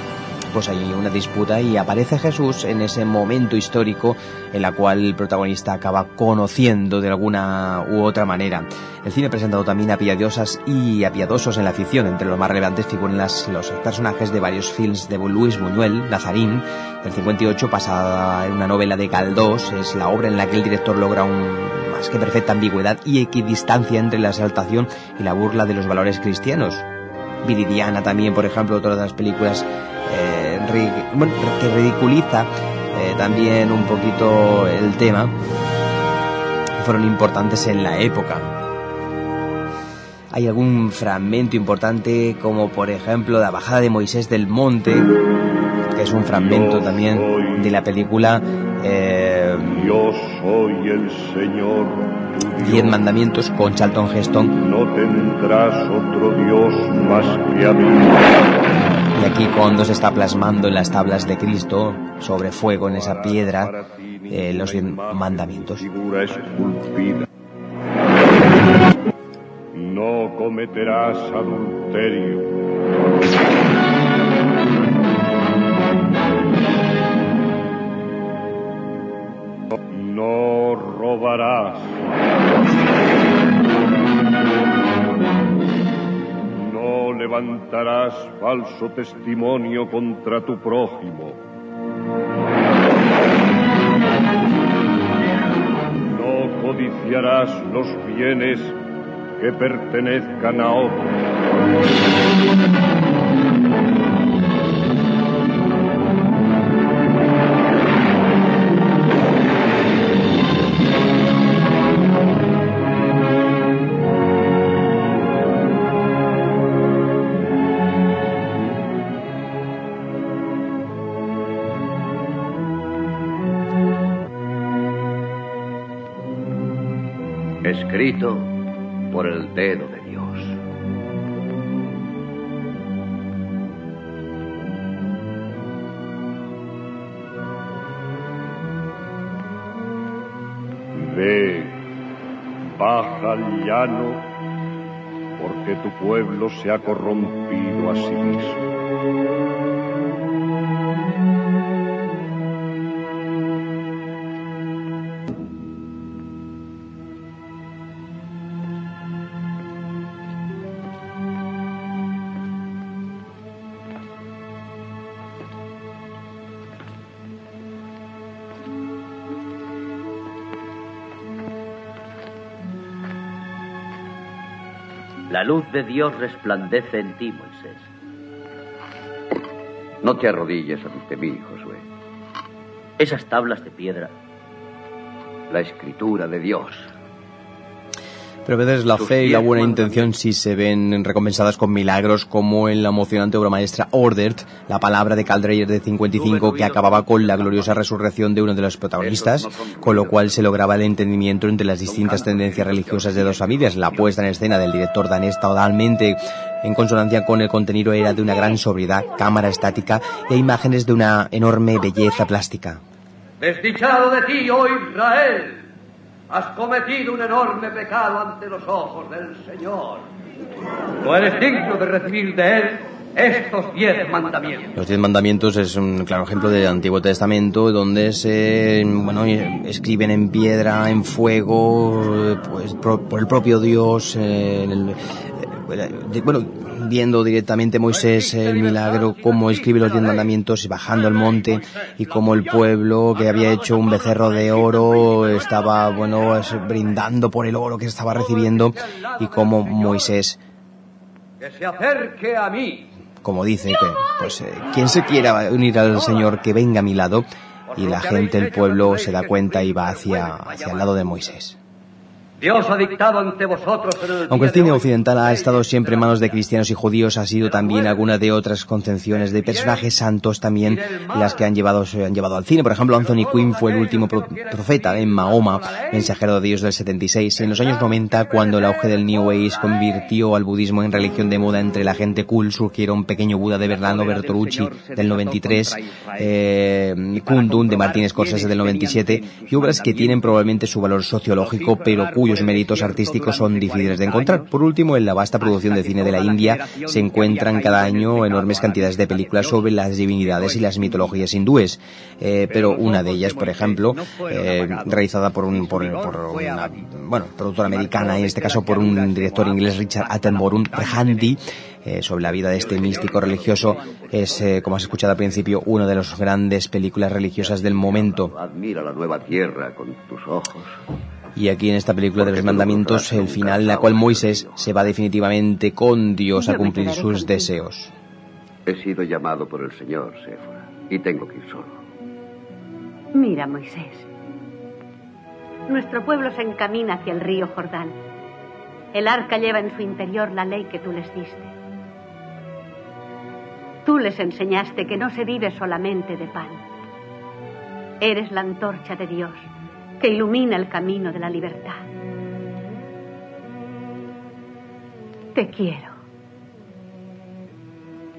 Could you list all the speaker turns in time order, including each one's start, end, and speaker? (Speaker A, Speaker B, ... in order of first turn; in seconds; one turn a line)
Speaker A: 0.5-26.8
Speaker A: 27.4-35.3
Speaker A: 36.8-38.5
Speaker A: 40.3-45.1
Speaker A: 45.9-50.0
Speaker B: 46.3-47.7
Speaker B: 49.6-53.0
Speaker A: 52.6-54.5
Speaker B: 54.6-58.5
Speaker A: 59.1-63.7
Speaker B: 62.7-67.3
Speaker A: 64.3-65.8
Speaker B: 69.7-72.5
Speaker B: 79.9-82.0
Speaker B: 86.5-91.4
Speaker B: 96.0-98.8
Speaker B: 99.4-101.1
Speaker C: 127.6-128.5
Speaker C: 129.1-130.6
Speaker B: 140.9-141.8
Speaker B: 142.8-144.3
Speaker B: 145.4-148.7
Speaker C: 175.3-177.8
Speaker C: 180.0-181.8
Speaker C: 183.0-184.1
Speaker C: 185.5-186.9
Speaker A: 188.4-212.8
Speaker C: 188.9-190.1
Speaker C: 196.1-197.8
Speaker C: 199.0-200.5
Speaker C: 201.8-204.1
Speaker D: 213.4-215.7
Speaker D: 216.3-220.1
Speaker D: 221.0-224.7
Speaker A: 224.7-250.4
Speaker D: 248.9-250.1
Speaker D: 251.4-252.9
Speaker A: 253.2-261.6
Speaker D: 257.7-261.2
Speaker D: 262.4-266.4
Speaker A: 264.3-318.3
Speaker D: 267.4-268.0
Speaker D: 269.2-269.9
Speaker D: 270.6-271.4
Speaker D: 273.1-276.1
Speaker C: 312.6-315.4
Speaker C: 317.4-320.8
Speaker A: 321.4-327.9
Speaker C: 322.2-324.7
Speaker E: 326.4-327.5
Speaker C: 328.6-331.8
Speaker E: 333.1-334.1
Speaker E: 335.7-338.0
Speaker E: 338.9-341.5
Speaker E: 343.8-346.6
Speaker E: 348.0-349.5
Speaker E: 350.0-351.8
Speaker E: 355.3-355.9